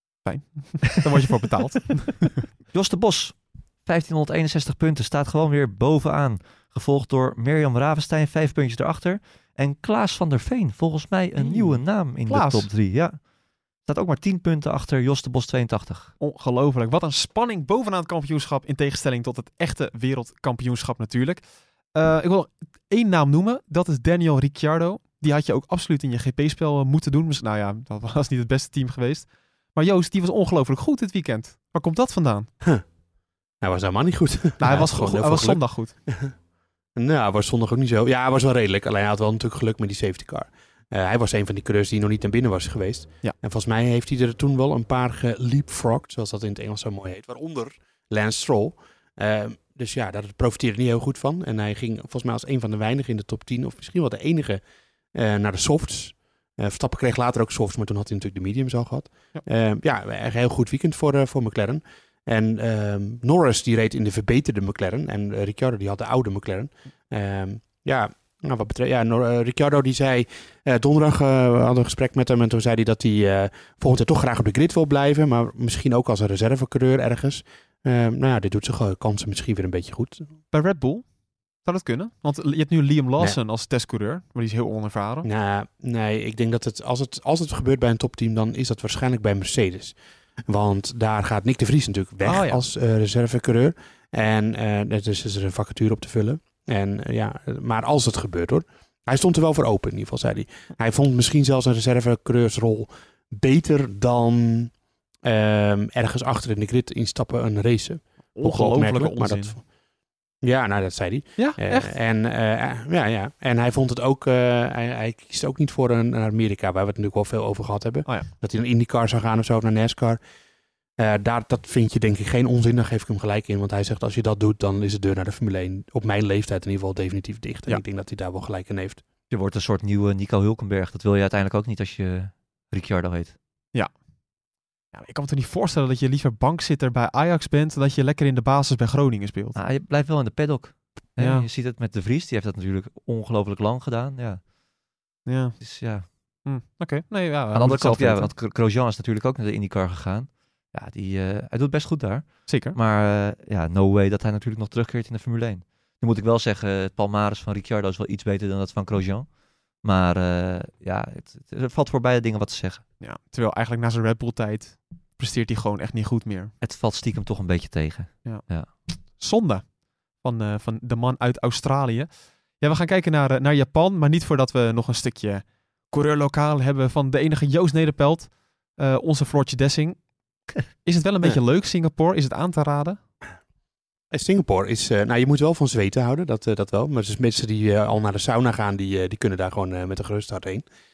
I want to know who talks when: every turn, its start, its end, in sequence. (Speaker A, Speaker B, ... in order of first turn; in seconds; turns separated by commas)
Speaker A: 0.2-2.5, Speaker B: 1.9-13.2, Speaker A: 11.4-12.7, Speaker B: 13.8-16.1, Speaker A: 16.2-32.5, Speaker C: 33.6-36.3, Speaker A: 34.6-36.0, Speaker C: 37.0-54.6, Speaker C: 55.1-80.3, Speaker A: 80.5-81.1, Speaker A: 81.6-85.3, Speaker C: 85.2-90.0, Speaker C: 90.5-104.7, Speaker A: 92.2-92.6, Speaker C: 105.2-109.7, Speaker A: 108.3-109.6, Speaker C: 110.4-120.2, Speaker A: 111.4-111.9, Speaker C: 121.0-129.0, Speaker B: 129.3-133.3, Speaker A: 134.9-139.6, Speaker B: 139.6-144.4, Speaker A: 141.2-141.5, Speaker A: 145.3-145.6, Speaker B: 145.6-146.1, Speaker A: 146.4-148.3, Speaker B: 147.5-162.8, Speaker A: 152.5-152.8, Speaker A: 163.0-166.5, Speaker B: 166.6-168.7, Speaker A: 168.2-183.0, Speaker C: 184.1-190.7